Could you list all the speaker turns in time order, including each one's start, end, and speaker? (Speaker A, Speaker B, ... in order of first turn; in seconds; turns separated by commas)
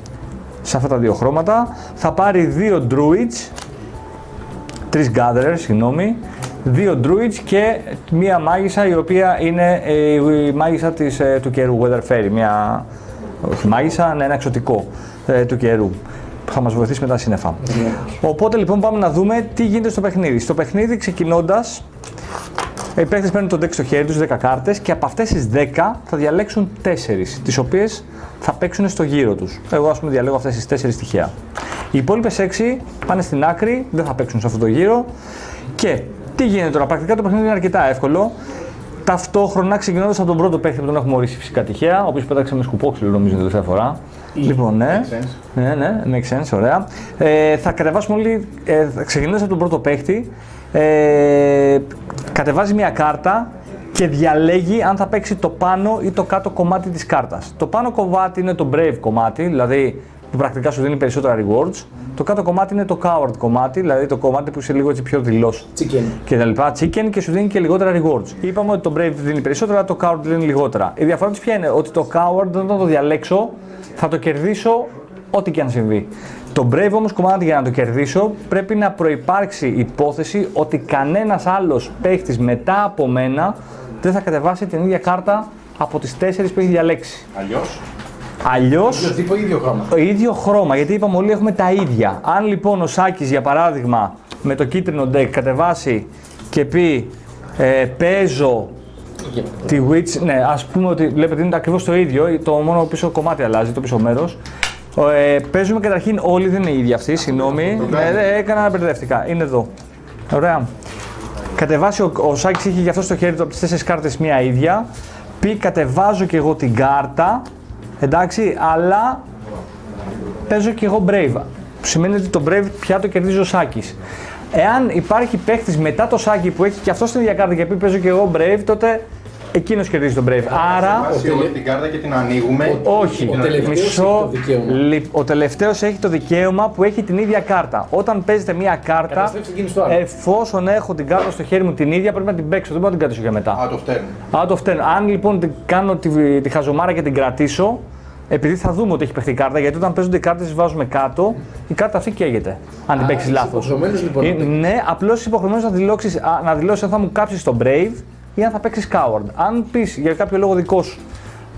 Speaker A: 0.6-3.5, Speaker A: 4.9-12.8, Speaker A: 13.4-21.8, Speaker A: 22.9-31.3, Speaker A: 31.9-35.1, Speaker A: 35.8-38.3, Speaker A: 39.0-65.7, Speaker B: 44.8-45.3, Speaker C: 65.8-66.1, Speaker A: 66.2-87.2, Speaker B: 87.3-87.8, Speaker A: 88.4-89.1, Speaker C: 88.8-89.9, Speaker A: 89.9-98.7, Speaker A: 99.6-104.4, Speaker A: 104.9-109.7, Speaker B: 107.7-108.2, Speaker A: 110.3-110.7, Speaker A: 111.5-114.8, Speaker A: 115.4-117.4, Speaker A: 118.0-119.2, Speaker A: 120.5-124.0, Speaker A: 124.5-129.0, Speaker A: 129.5-131.1, Speaker B: 130.5-133.7, Speaker C: 130.7-131.5, Speaker C: 132.6-134.8, Speaker A: 132.8-139.3, Speaker C: 139.1-140.0, Speaker A: 139.8-143.6, Speaker B: 143.5-144.1, Speaker A: 144.3-161.0, Speaker C: 152.9-154.6